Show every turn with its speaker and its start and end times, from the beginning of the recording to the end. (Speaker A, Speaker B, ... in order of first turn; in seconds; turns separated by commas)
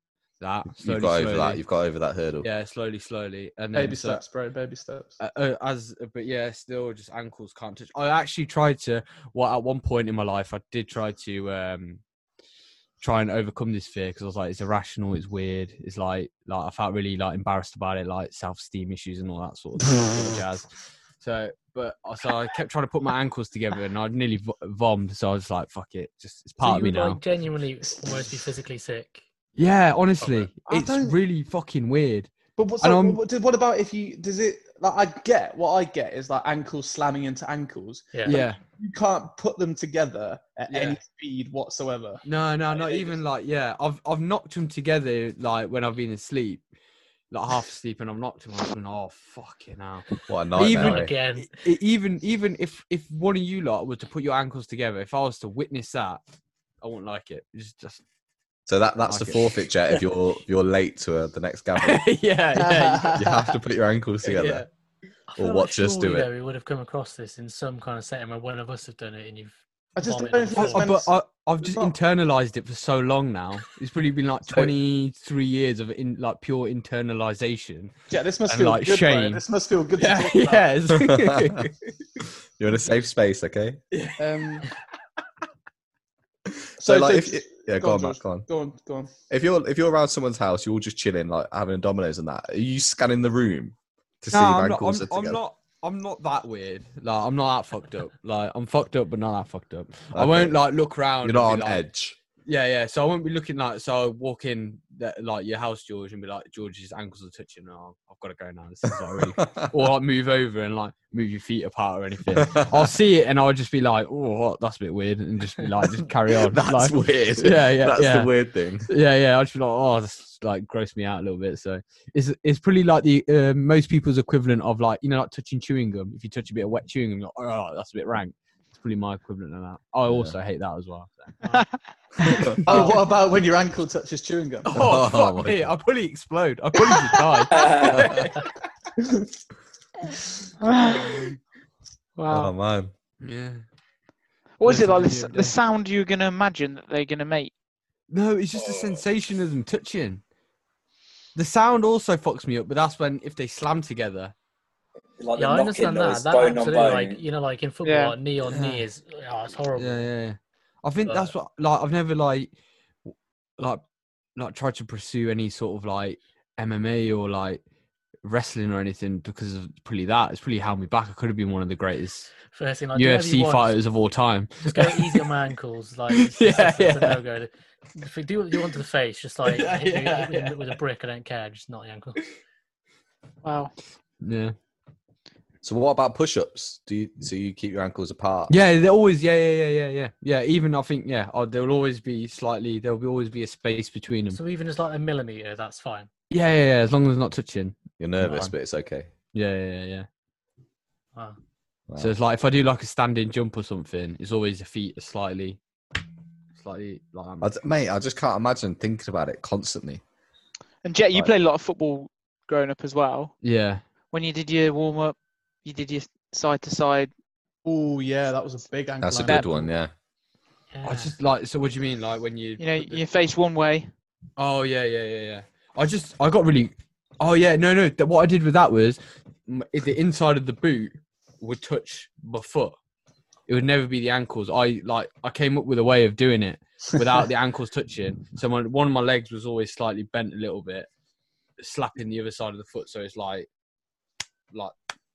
Speaker A: 0.4-1.6, Speaker B: 0.8-2.5, Speaker A: 2.4-4.2, Speaker C: 3.7-5.2, Speaker A: 5.2-12.0, Speaker A: 13.0-20.7, Speaker A: 21.2-27.2, Speaker D: 26.6-29.2, Speaker A: 29.6-33.2, Speaker C: 30.2-31.2, Speaker C: 32.6-43.2, Speaker D: 38.1-38.4, Speaker A: 38.3-38.6, Speaker A: 40.7-41.0, Speaker A: 42.2-46.6, Speaker A: 47.3-56.2, Speaker B: 50.3-51.1, Speaker D: 50.6-51.5, Speaker A: 56.8-58.0, Speaker B: 58.7-62.0, Speaker A: 59.1-60.0, Speaker A: 61.8-63.3, Speaker C: 62.5-63.5, Speaker B: 63.2-64.7, Speaker A: 64.2-64.7, Speaker D: 65.3-70.8, Speaker B: 65.4-66.3, Speaker C: 70.0-71.9, Speaker A: 70.6-77.9, Speaker C: 78.1-80.6, Speaker A: 78.5-79.4, Speaker A: 80.0-81.7, Speaker B: 81.0-81.7, Speaker B: 82.6-83.8, Speaker A: 83.9-84.7, Speaker C: 84.2-84.7, Speaker B: 86.8-88.5, Speaker C: 86.8-89.1, Speaker B: 89.3-95.4, Speaker A: 94.3-101.8, Speaker B: 100.1-100.6, Speaker B: 101.2-102.2, Speaker A: 102.5-118.3, Speaker B: 112.3-112.9, Speaker B: 116.3-118.9, Speaker A: 118.9-131.3, Speaker B: 130.1-130.4, Speaker C: 132.3-134.7, Speaker B: 132.3-132.6, Speaker A: 134.7-138.2, Speaker B: 134.8-135.7, Speaker E: 137.5-138.2, Speaker B: 137.8-138.3, Speaker F: 140.7-141.2, Speaker F: 142.2-142.5, Speaker B: 142.3-142.9, Speaker A: 143.2-143.6, Speaker F: 144.6-147.5, Speaker A: 144.7-145.6, Speaker A: 148.1-150.2, Speaker E: 148.5-149.0, Speaker A: 151.3-154.3, Speaker E: 155.2-157.2, Speaker D: 155.4-160.1, Speaker F: 157.8-158.2, Speaker A: 158.4-158.8, Speaker A: 159.8-162.5, Speaker D: 161.1-161.3, Speaker A: 164.4-167.6, Speaker A: 168.2-172.3, Speaker D: 172.5-173.8, Speaker A: 172.9-175.3, Speaker D: 174.7-182.2, Speaker A: 176.1-177.2, Speaker A: 179.4-180.6, Speaker F: 183.4-183.7, Speaker A: 184.2-184.5, Speaker B: 185.6-188.5, Speaker A: 188.5-194.4, Speaker D: 194.3-196.1, Speaker A: 196.3-198.5, Speaker B: 198.0-199.1, Speaker A: 199.3-200.1, Speaker A: 202.0-205.6, Speaker A: 206.6-207.6, Speaker B: 207.4-210.0, Speaker F: 210.8-213.3, Speaker A: 213.4-213.8, Speaker F: 214.1-217.1, Speaker C: 217.7-219.8, Speaker B: 219.0-219.9, Speaker D: 220.7-221.2, Speaker A: 220.8-223.0, Speaker F: 222.6-223.9, Speaker A: 224.4-232.8, Speaker A: 233.5-240.9, Speaker A: 241.6-243.5